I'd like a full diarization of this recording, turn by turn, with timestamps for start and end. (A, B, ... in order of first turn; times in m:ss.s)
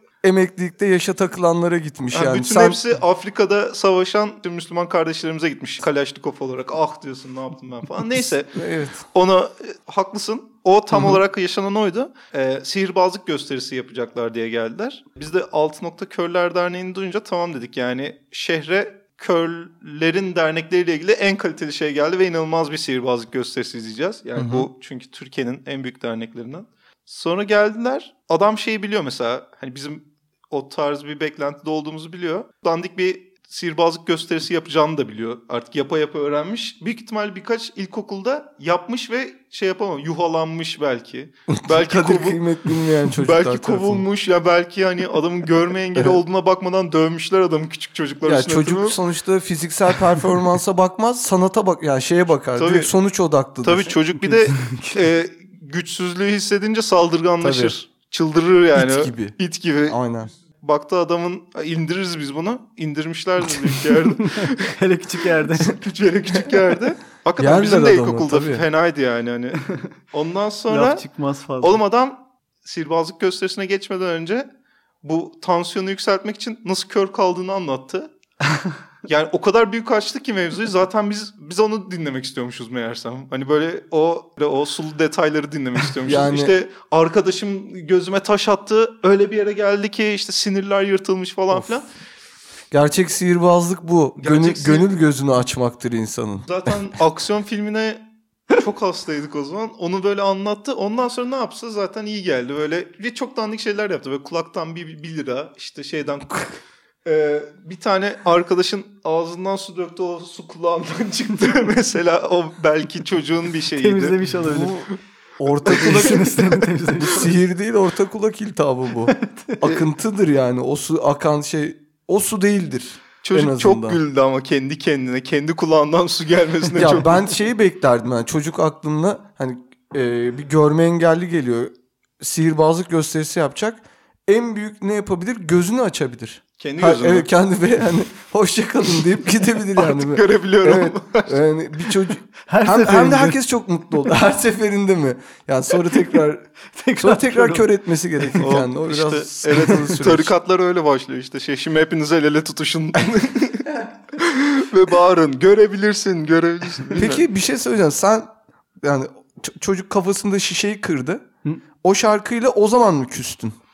0:00.2-0:02.8 A
0:02.1-0:49.0 B
0:08.5-0:09.0 A
0:10.9-0:11.2 A
0:24.4-0:24.7 A
0:41.5-0:44.0 A
0:48.2-0:54.0 A
0:52.5-0:52.9 B
0:53.6-1:00.0 B
0:54.5-0:54.9 C
0:57.4-0:57.8 A
0:58.8-1:00.3 A
1:00.5-1:04.8 B
1:04.3-1:05.8 C
1:05.6-1:11.1 B
1:07.4-1:08.7 A
1:10.7-1:11.8 C
1:11.6-1:14.5 B
1:15.0-1:18.1 B
1:19.0-1:31.9 B
1:26.0-1:26.6 A
1:31.5-1:31.8 A
1:32.7-1:36.7 A
1:34.2-1:34.9 B
1:36.5-1:54.2 B
1:53.8-1:54.9 C
1:54.4-1:56.3 A
1:55.6-1:57.4 C
1:55.7-1:56.0 B
1:57.0-2:04.0 A
1:59.2-1:59.8 C
2:03.2-2:07.3 B
2:06.7-2:30.3 A
2:16.6-2:17.3 B
2:19.8-2:22.1 B
2:22.5-2:23.4 C
2:26.7-2:27.7 C
2:28.4-2:37.2 B
2:37.0-2:38.3 A
2:38.8-2:41.2 A
2:41.8-2:43.6 A